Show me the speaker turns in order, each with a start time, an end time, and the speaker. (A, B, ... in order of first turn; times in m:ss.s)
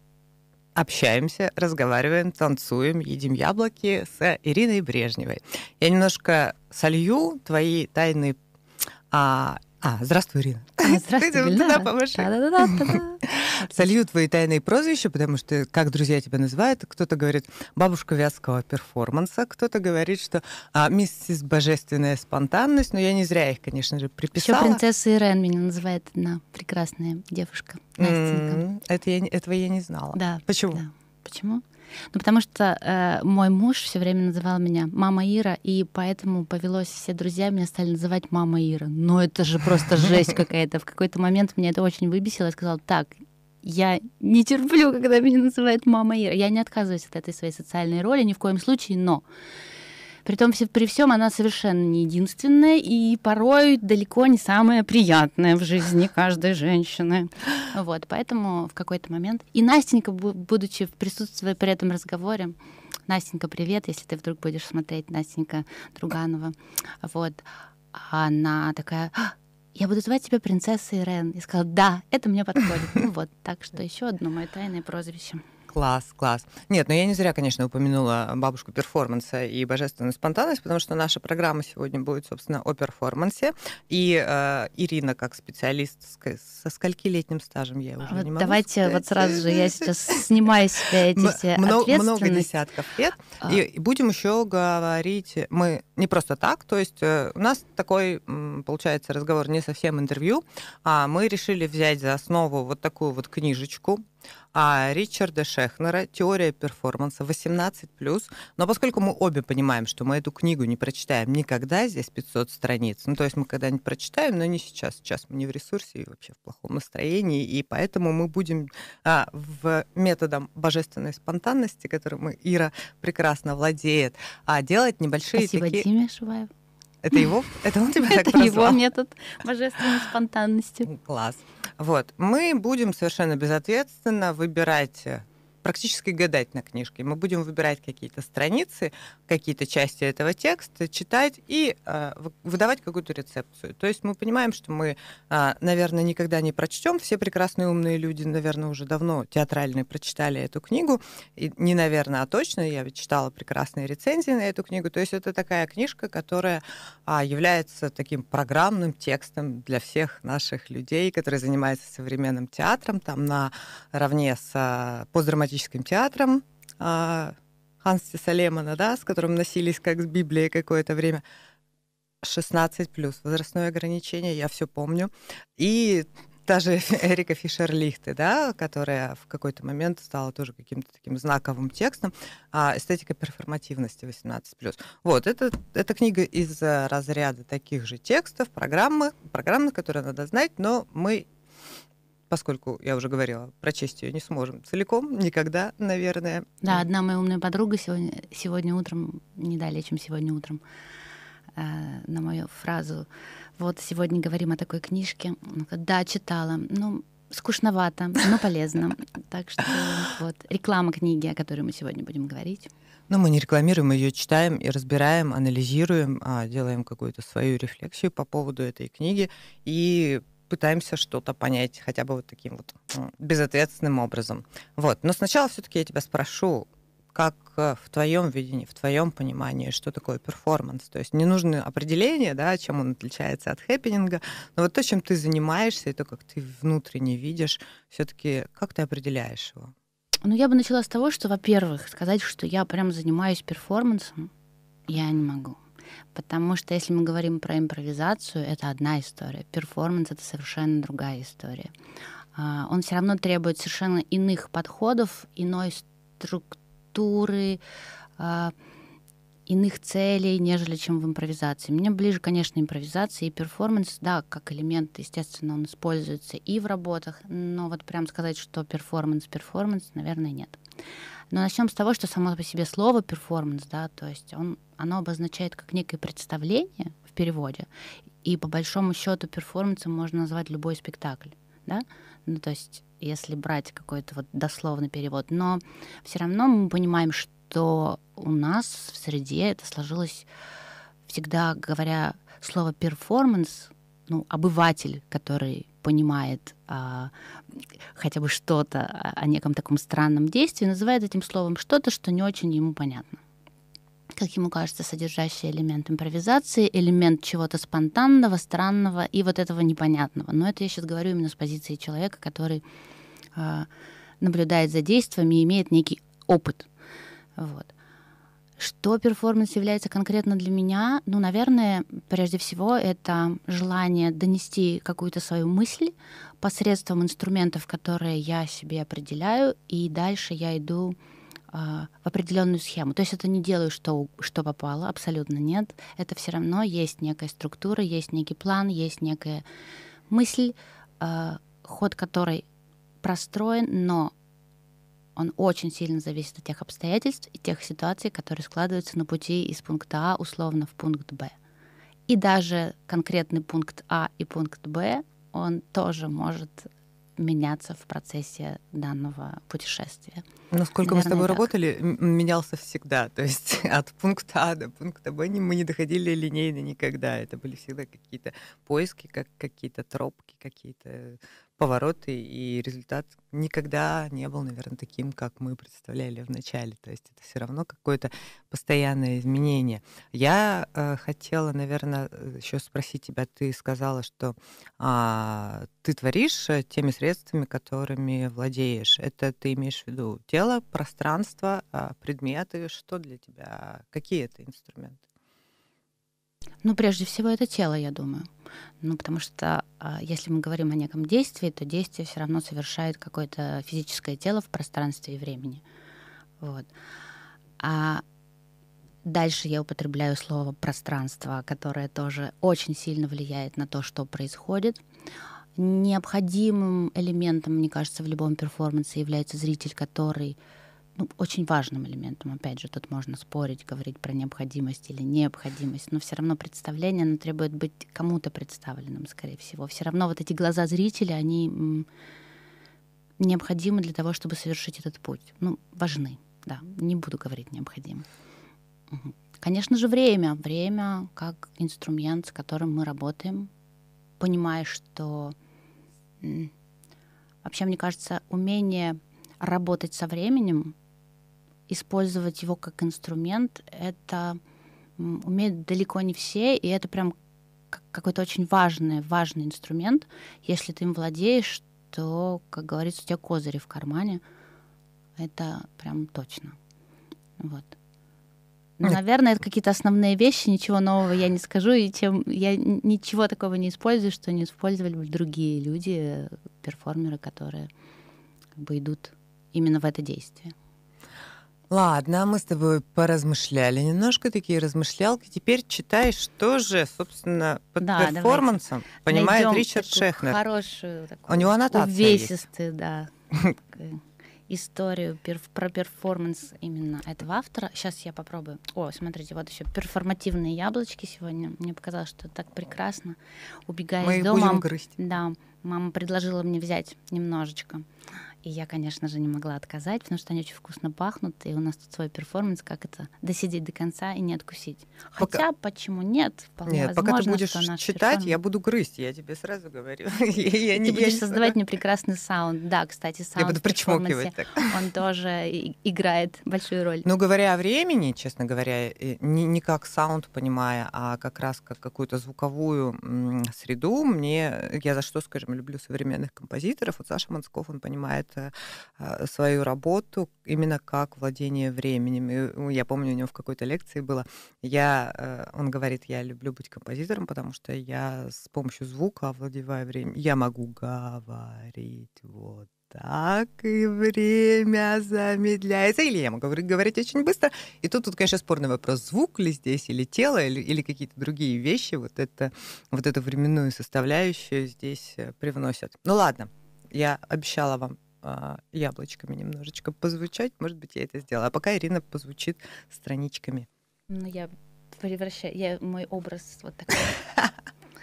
0:00.7-0:08.4 A
0:09.1-0:24.8 A
0:10.8-0:13.9 B
0:24.4-0:28.6 B
0:28.0-0:30.8 A
0:30.1-0:49.2 B
0:50.2-1:02.6 B
1:03.1-1:15.4 B
1:15.7-1:30.2 A
1:28.0-1:32.5 B
1:31.1-1:44.0 A
1:44.5-2:05.8 A
2:05.3-2:06.5 B
2:07.0-2:08.8 A
2:08.0-2:10.9 B
2:10.8-2:51.2 A
2:52.2-3:11.3 A
3:12.3-3:16.8 A
3:16.6-3:20.6 B
3:21.5-3:32.7 B
3:33.1-3:59.7 A
4:00.2-4:04.3 B
4:04.9-4:05.6 B
4:06.1-4:11.7 B
4:12.3-4:17.6 B
4:18.2-4:18.5 B
4:19.5-4:30.6 B
4:31.3-4:37.7 B
4:38.2-4:50.3 B
4:51.1-5:03.2 B
5:04.1-5:12.6 B
5:13.3-5:13.7 B
5:14.2-5:16.7 B
5:17.4-5:17.7 B
5:18.6-5:31.0 B
5:31.5-5:39.4 B
5:40.1-5:42.4 B
5:43.0-5:44.1 B
5:45.2-5:51.3 B
5:52.1-6:00.2 B
6:00.5-6:35.0 A
6:00.8-6:01.4 B
6:36.6-6:38.3 B
6:38.8-6:45.6 B
6:46.4-6:46.7 B
6:47.6-6:48.0 B
6:49.0-6:54.8 B
6:55.6-7:00.4 B
7:01.0-7:11.9 B
7:13.2-7:18.0 B
7:18.9-7:23.5 B
7:24.2-7:25.4 B
7:26.2-7:26.5 B
7:27.4-7:30.7 B
7:31.7-7:34.4 B
7:35.0-7:37.1 B
7:37.7-7:44.2 B
7:45.2-7:46.6 B
7:47.4-7:47.8 B
7:48.8-7:57.7 B
7:58.6-8:00.5 B
8:01.7-8:10.4 A
8:07.8-8:27.8 B
8:11.3-8:12.4 A
8:24.0-8:25.0 A
8:28.4-8:38.4 B
8:36.7-8:41.5 A
8:40.7-8:47.1 B
8:43.4-8:44.7 A
8:47.0-9:33.7 A
9:34.1-9:37.2 B